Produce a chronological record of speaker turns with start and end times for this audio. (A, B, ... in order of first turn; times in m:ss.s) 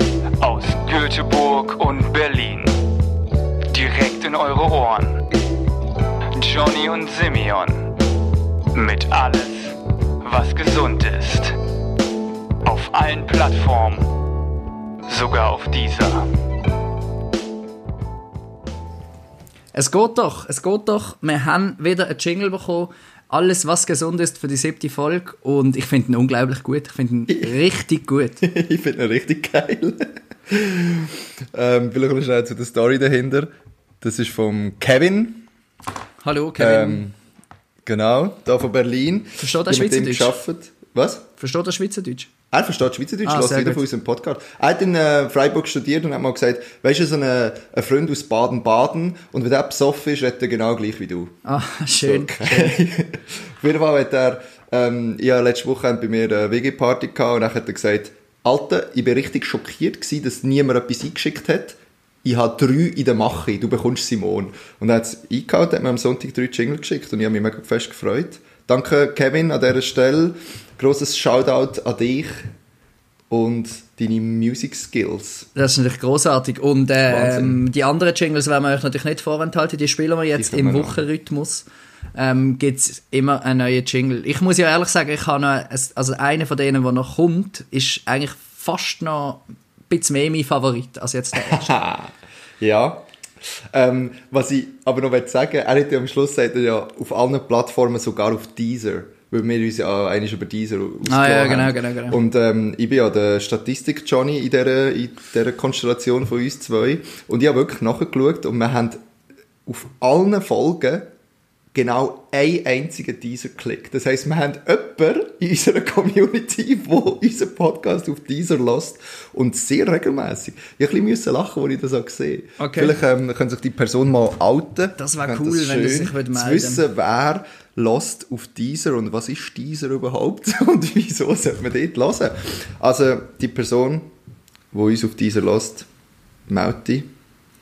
0:00.4-0:02.8 A
0:03.7-0:05.2 A
0:06.3-0:07.9 A
0:08.7-0:11.6 A
0:12.6-0:14.1 A
0:15.1-0:16.3 A
0:19.7-0:28.4 B
0:28.4-0:35.5 C
0:36.2-0:37.0 B
0:36.6-0:37.1 C
0:37.8-0:41.3 C
0:39.4-0:40.4 B
0:41.4-0:42.3 B
0:42.5-0:51.4 C
0:43.2-0:43.8 B
0:51.5-0:52.8 B
0:52.0-1:12.5 C
1:13.3-1:15.5 C
1:15.6-1:31.8 B
1:17.0-1:17.6 C
1:20.4-1:21.0 C
1:31.4-1:49.0 C
1:41.0-1:42.2 B
1:49.7-1:51.1 C
1:51.7-2:14.1 C
2:02.6-2:03.0 B
2:05.0-2:06.8 B
2:14.7-2:15.9 C
2:16.5-2:17.1 C